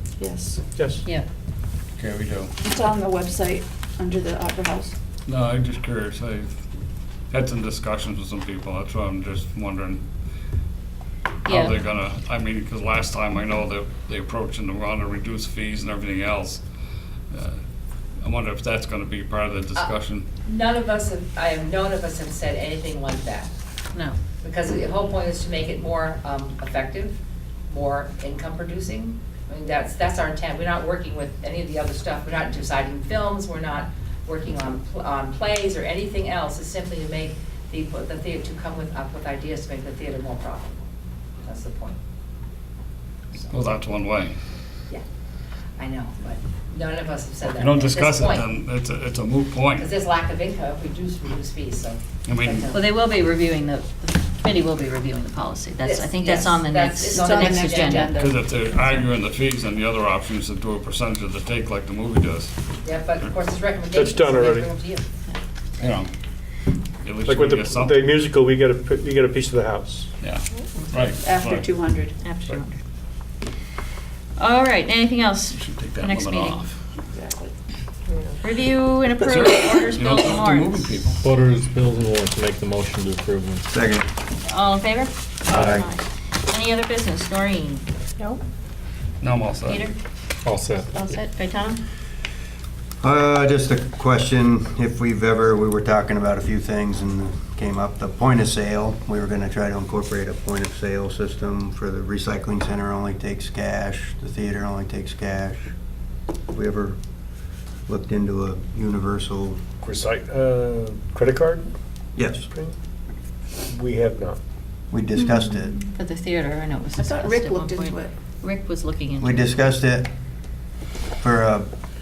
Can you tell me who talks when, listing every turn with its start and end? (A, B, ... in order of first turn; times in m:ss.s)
0:00.2-0:00.6 A
0:00.8-0:01.0 B
0:02.0-0:02.5 C
0:02.6-0:04.9 A
0:05.2-0:06.6 C
0:07.3-0:10.0 C
0:11.4-0:11.8 D
0:11.4-0:16.6 C
0:17.3-0:17.6 C
0:18.2-0:20.2 C
0:20.4-0:23.5 E
0:24.4-0:27.2 E
0:27.7-0:40.8 E
0:41.4-0:42.0 E
0:43.5-0:44.3 C
0:45.8-0:48.4 E
0:47.4-0:49.9 C
0:49.7-0:52.8 E
0:52.2-0:52.7 C
0:52.7-0:58.2 D
0:55.8-0:58.1 E
0:57.1-0:58.4 A
0:58.1-1:02.5 C
1:02.8-1:05.0 E
1:03.9-1:04.7 B
1:05.8-1:06.1 C
1:07.0-1:08.0 C
1:07.2-1:10.1 B
1:10.2-1:11.7 C
1:11.2-1:12.2 A
1:12.2-1:12.8 D
1:14.4-1:16.6 D
1:15.5-1:16.8 C
1:17.1-1:17.5 A
1:18.4-1:20.9 D
1:19.2-1:21.3 C
1:21.2-1:23.7 F
1:23.7-1:24.0 G
1:24.4-1:27.8 D
1:25.5-1:25.8 F
1:25.5-1:25.8 G
1:29.2-1:29.8 C
1:29.6-1:30.0 D
1:30.4-1:30.9 F
1:30.9-1:31.8 D
1:33.0-1:45.7 G
1:46.5-1:47.0 G
1:47.9-1:49.6 G
1:49.8-1:51.6 B
1:52.2-1:52.5 G
1:52.5-1:52.7 B
1:53.7-1:54.4 B
1:54.9-1:55.8 G
1:55.9-1:59.6 D
1:57.0-1:58.1 A
1:59.2-2:00.1 G
2:01.2-2:01.7 G